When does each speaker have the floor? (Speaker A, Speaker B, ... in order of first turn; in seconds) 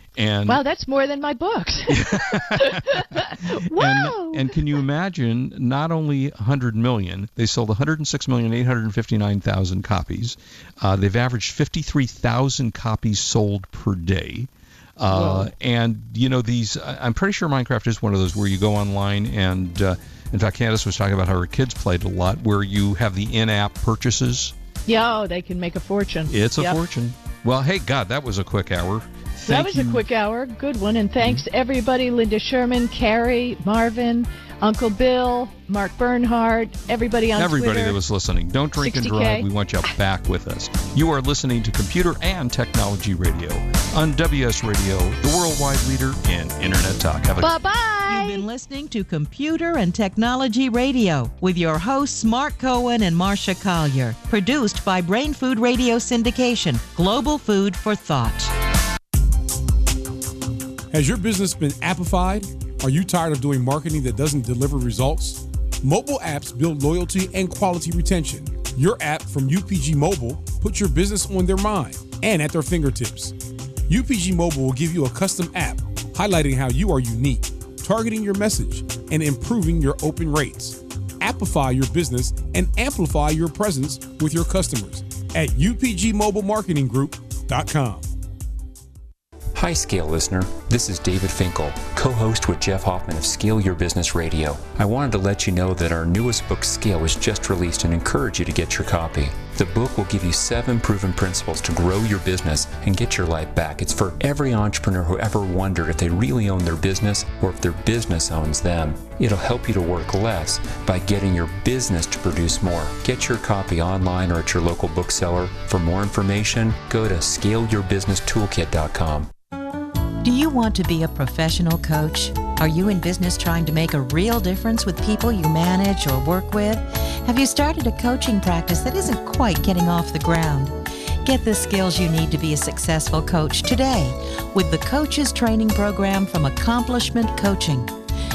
Speaker A: 0.1-0.6, 1.9-24.5, 26.3-30.0, 37.4-47.5
Speaker B: 0.5-4.5, 15.1-15.5, 24.9-26.8, 29.5-38.0, 38.8-39.5, 47.4-48.5
Speaker C: 48.1-58.5, 120.2-137.9
Speaker D: 60.9-73.3, 73.9-88.1
Speaker E: 89.5-119.3